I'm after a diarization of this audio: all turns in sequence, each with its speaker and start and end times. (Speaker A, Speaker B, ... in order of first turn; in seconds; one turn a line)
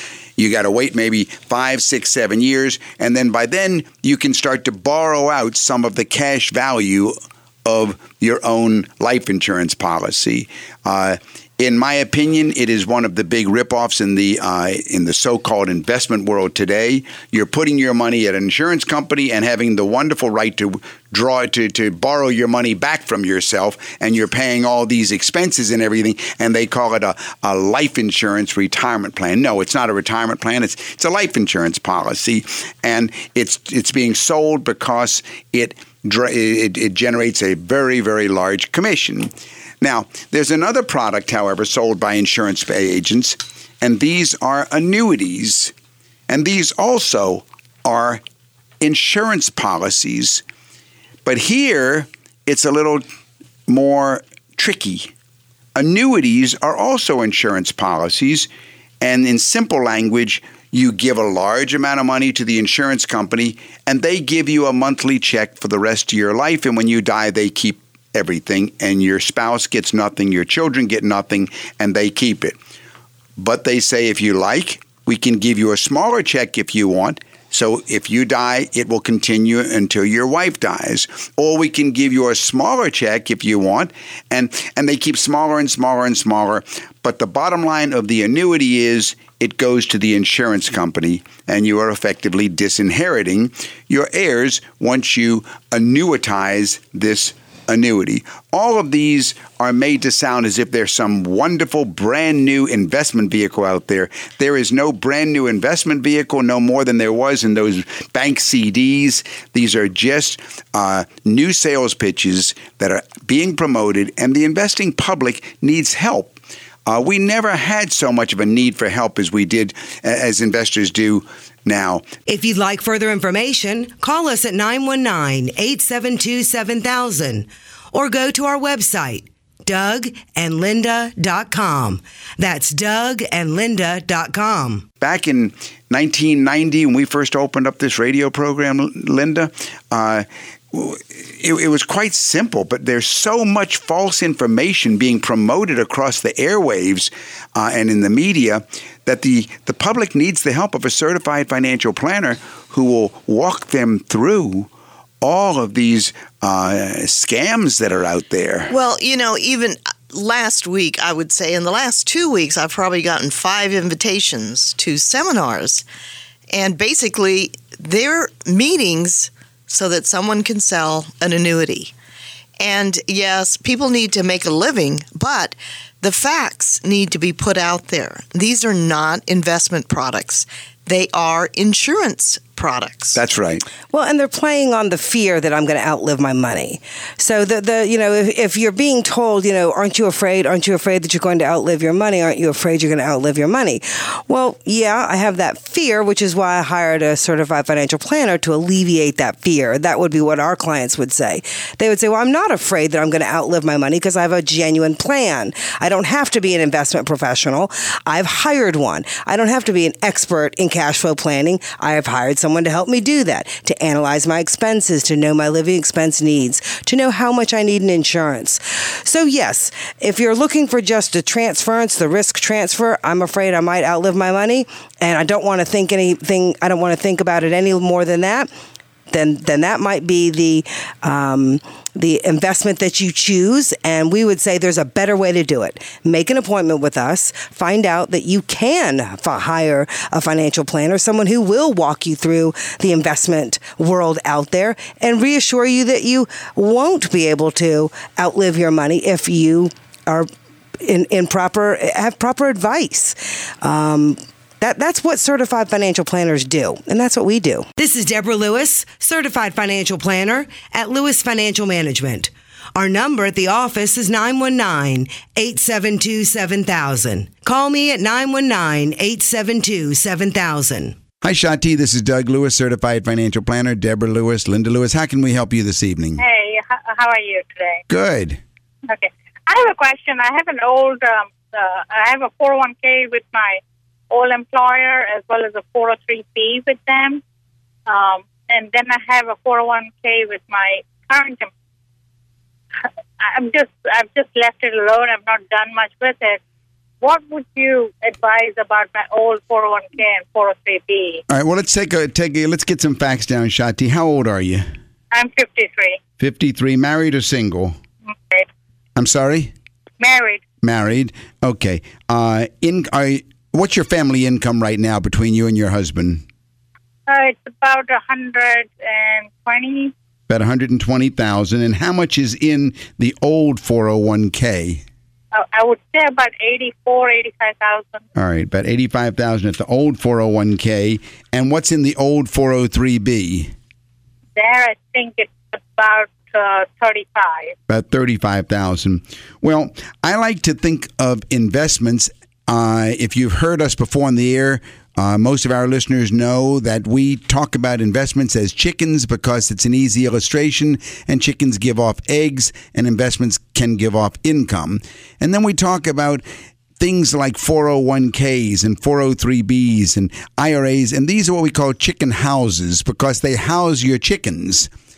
Speaker A: 0.4-45.7
Speaker A: 46.3-48.2
Speaker A: 48.8-50.4
Speaker A: 51.2-53.0
Speaker A: 53.7-55.1
Speaker A: 55.7-58.5
Speaker A: 59.0-72.5
Speaker A: 73.4-122.1
Speaker B: 122.2-134.8
Speaker A: 135.0-154.7
Speaker A: 155.2-158.7
Speaker C: 158.7-165.8
Speaker C: 166.5-171.9
Speaker C: 172.6-183.2
Speaker A: 183.1-183.6
Speaker B: 183.9-228.5
Speaker B: 229.1-250.3
Speaker B: 250.8-270.9
Speaker A: 271.2-276.2
Speaker D: 276.2-277.8
Speaker A: 277.9-278.4
Speaker D: 278.9-287.2
Speaker D: 287.9-291.5
Speaker D: 292.8-296.4
Speaker D: 297.0-301.2
Speaker A: 301.3-304.7
Speaker D: 305.1-306.0
Speaker A: 306.2-307.8
Speaker D: 308.1-308.5
Speaker A: 308.9-309.5
Speaker D: 310.0-310.4
Speaker A: 310.6-316.2
Speaker D: 317.1-319.9
Speaker A: 320.3-324.8
Speaker D: 325.3-328.0
Speaker A: 328.1-333.5
Speaker D: 334.4-337.5
Speaker A: 337.7-356.2
Speaker A: 356.8-364.7